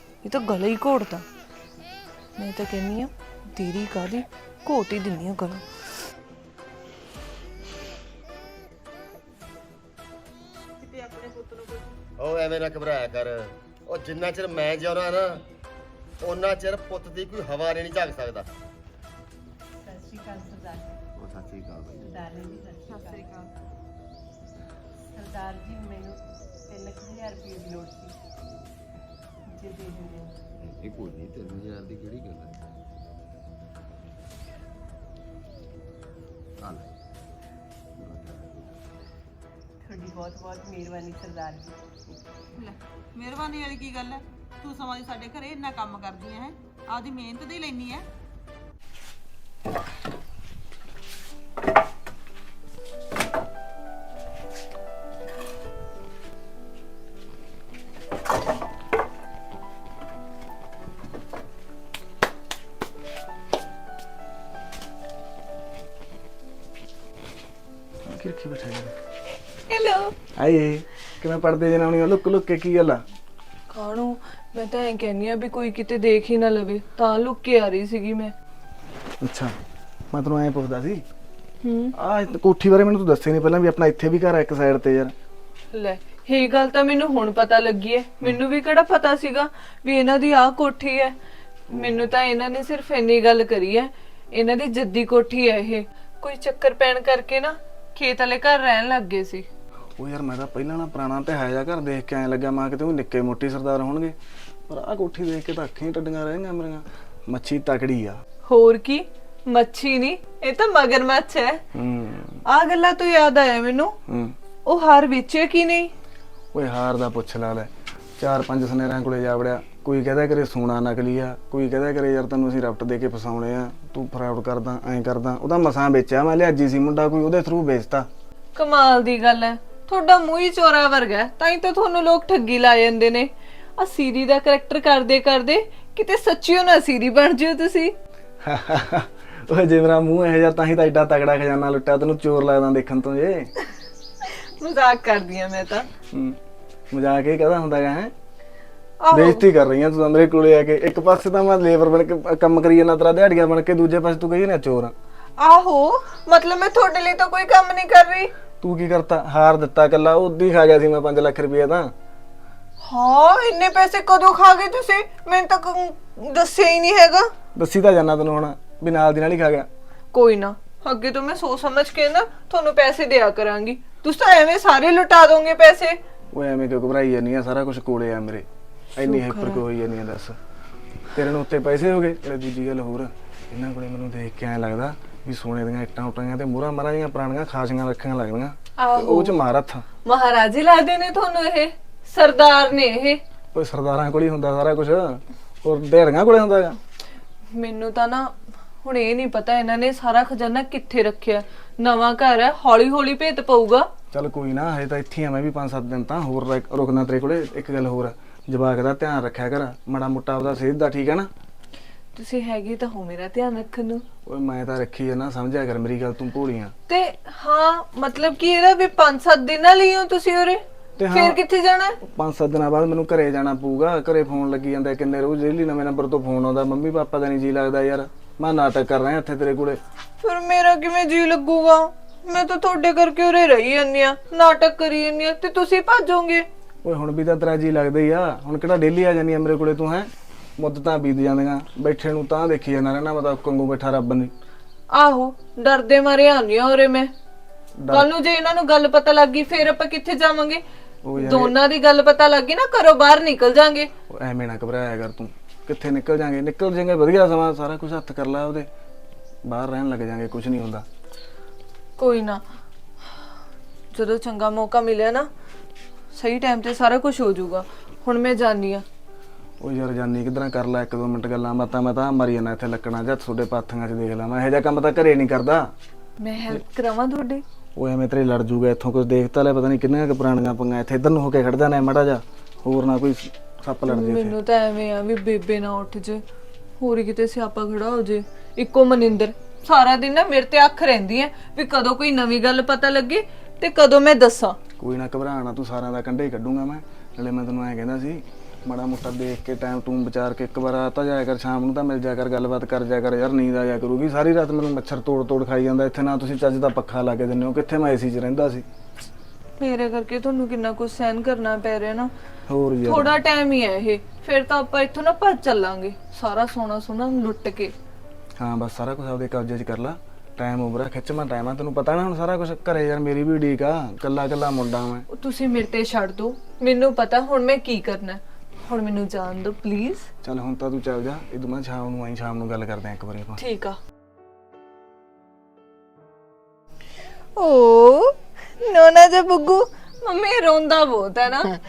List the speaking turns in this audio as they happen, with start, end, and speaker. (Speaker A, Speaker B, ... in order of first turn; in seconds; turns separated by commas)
Speaker A: 0.2-1.2, Speaker A: 2.4-5.7, Speaker B: 10.8-11.9, Speaker C: 12.2-15.4, Speaker C: 16.2-18.5, Speaker D: 19.8-21.0, Speaker C: 21.2-22.2, Speaker D: 22.0-23.2, Speaker B: 22.9-23.5, Speaker D: 25.1-26.2, Speaker D: 26.7-28.1, Speaker C: 28.4-28.7, Speaker D: 29.5-30.3, Speaker C: 30.6-32.6, Speaker C: 36.6-36.9, Speaker C: 38.0-38.8, Speaker D: 39.8-41.8, Speaker B: 42.6-48.1, Speaker E: 68.1-68.9, Speaker A: 69.7-70.1, Speaker E: 70.4-73.0, Speaker A: 73.7-78.3, Speaker E: 79.2-79.5, Speaker E: 80.1-81.0, Speaker A: 81.6-81.9, Speaker E: 81.9-85.1, Speaker A: 85.7-91.2, Speaker A: 91.7-99.5, Speaker E: 100.0-104.2, Speaker E: 104.7-108.2, Speaker A: 108.5-111.6, Speaker E: 111.8-112.3, Speaker A: 112.5-114.0, Speaker E: 114.1-114.3, Speaker A: 114.7-115.9, Speaker E: 116.5-128.1, Speaker A: 128.6-137.9, Speaker E: 138.4-143.5, Speaker A: 144.6-145.9, Speaker E: 146.9-148.1, Speaker A: 149.0-149.4, Speaker E: 149.2-154.9, Speaker A: 155.4-158.3, Speaker E: 158.6-161.9, Speaker A: 162.8-167.3, Speaker E: 167.6-169.7, Speaker A: 170.1-176.0, Speaker E: 176.3-178.5, Speaker A: 179.0-179.6, Speaker E: 179.0-180.4, Speaker E: 181.1-189.8, Speaker A: 188.8-189.4, Speaker A: 190.0-193.2, Speaker E: 193.5-196.8, Speaker A: 197.5-203.9, Speaker E: 204.1-211.3, Speaker A: 212.2-214.0, Speaker E: 214.2-216.7, Speaker A: 216.9-222.0, Speaker E: 221.0-221.4, Speaker E: 222.0-229.8, Speaker A: 230.2-236.5, Speaker E: 236.8-244.3, Speaker A: 244.9-247.1, Speaker E: 247.8-248.1, Speaker A: 247.9-250.6, Speaker E: 251.1-251.6, Speaker A: 251.2-253.9, Speaker E: 254.1-258.7, Speaker E: 259.4-260.9, Speaker A: 262.0-262.4, Speaker A: 263.9-265.3, Speaker A: 266.1-268.9, Speaker E: 269.6-275.7, Speaker A: 276.2-277.4, Speaker E: 277.8-284.4, Speaker A: 283.9-286.2, Speaker A: 286.8-294.6, Speaker E: 294.8-308.7, Speaker A: 309.6-312.1, Speaker E: 312.5-313.1, Speaker A: 312.8-317.7, Speaker E: 318.4-325.0, Speaker A: 325.1-330.1, Speaker E: 330.2-333.4, Speaker A: 333.4-333.8, Speaker A: 337.4-341.5